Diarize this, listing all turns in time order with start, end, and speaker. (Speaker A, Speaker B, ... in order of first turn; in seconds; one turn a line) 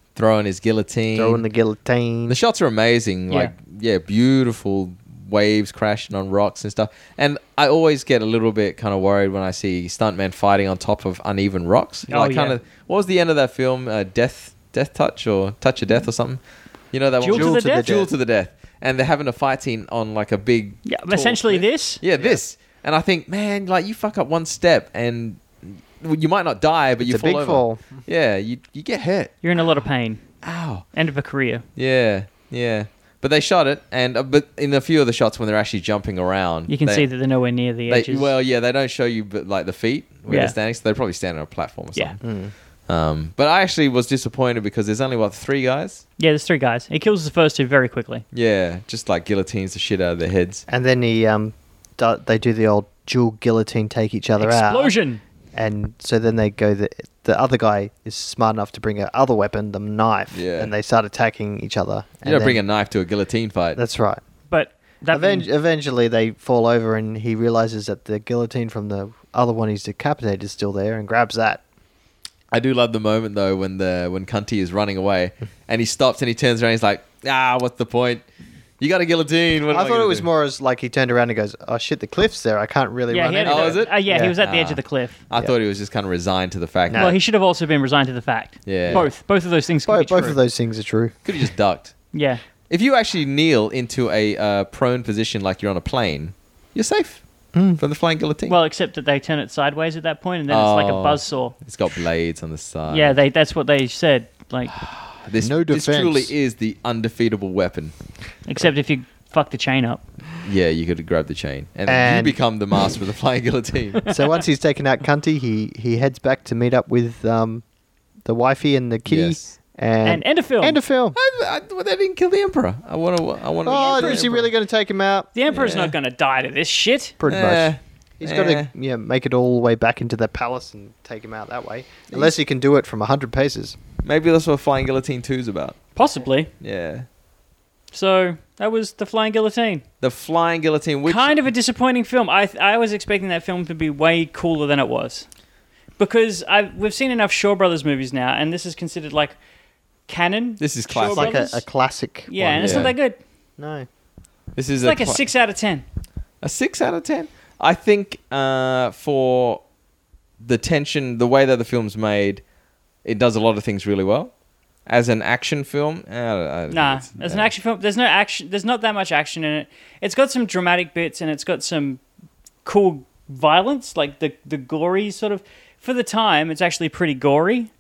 Speaker A: 0.2-1.4
Speaker B: 1.1-2.4
Speaker A: 2.3-16.4
Speaker C: 12.1-12.6
Speaker A: 16.9-29.4
Speaker C: 17.2-17.9
Speaker B: 17.2-18.1
Speaker C: 20.9-22.0
Speaker B: 27.0-28.0
Speaker C: 29.4-30.2
Speaker A: 30.4-30.9
Speaker C: 30.9-31.6
Speaker A: 31.8-37.1
Speaker C: 36.7-38.3
Speaker A: 37.9-42.3
Speaker C: 40.3-40.5
Speaker B: 42.2-42.5
Speaker A: 42.9-46.0
Speaker C: 46.2-48.2
Speaker A: 48.3-50.6
Speaker B: 50.7-54.9
Speaker C: 54.4-55.2
Speaker B: 55.5-62.6
Speaker A: 60.3-60.7
Speaker A: 62.2-63.8
Speaker B: 63.8-64.2
Speaker C: 64.5-65.5
Speaker B: 65.1-71.6
Speaker A: 72.5-78.2
Speaker A: 78.8-80.3
Speaker B: 79.7-84.4
Speaker C: 83.1-85.2
Speaker A: 83.5-87.2
Speaker B: 86.9-87.2
Speaker C: 87.0-90.4
Speaker A: 88.7-89.1
Speaker B: 88.9-89.1
Speaker B: 89.9-91.4
Speaker A: 91.2-92.1
Speaker C: 92.1-92.4
Speaker A: 92.7-97.2
Speaker B: 97.5-97.8
Speaker A: 97.8-98.5
Speaker C: 98.5-101.5
Speaker A: 100.5-103.2
Speaker C: 102.9-104.8
Speaker A: 104.7-107.9
Speaker B: 105.4-106.3
Speaker C: 108.5-110.0
Speaker A: 110.4-114.1
Speaker B: 111.9-112.4
Speaker B: 114.1-117.6
Speaker B: 118.2-121.2
Speaker A: 119.1-119.5
Speaker C: 120.0-120.8
Speaker A: 121.2-124.5
Speaker B: 123.6-125.3
Speaker C: 123.7-124.4
Speaker C: 125.3-127.2
Speaker A: 125.5-126.0
Speaker B: 127.2-133.8
Speaker A: 127.2-128.7
Speaker A: 134.0-135.8
Speaker C: 136.0-136.5
Speaker A: 136.6-137.1
Speaker C: 137.9-139.8
Speaker A: 140.0-141.4
Speaker C: 141.1-145.3
Speaker C: 146.0-149.4
Speaker C: 150.1-151.6
Speaker A: 150.6-151.4
Speaker B: 151.0-153.0
Speaker C: 152.3-153.2
Speaker A: 152.6-152.9
Speaker B: 153.6-153.9
Speaker A: 154.6-155.2
Speaker C: 154.8-155.8
Speaker A: 156.4-159.6
Speaker A: 160.4-162.4
Speaker A: 163.0-164.3
Speaker A: 164.9-167.5
Speaker C: 166.7-172.0
Speaker C: 172.7-177.7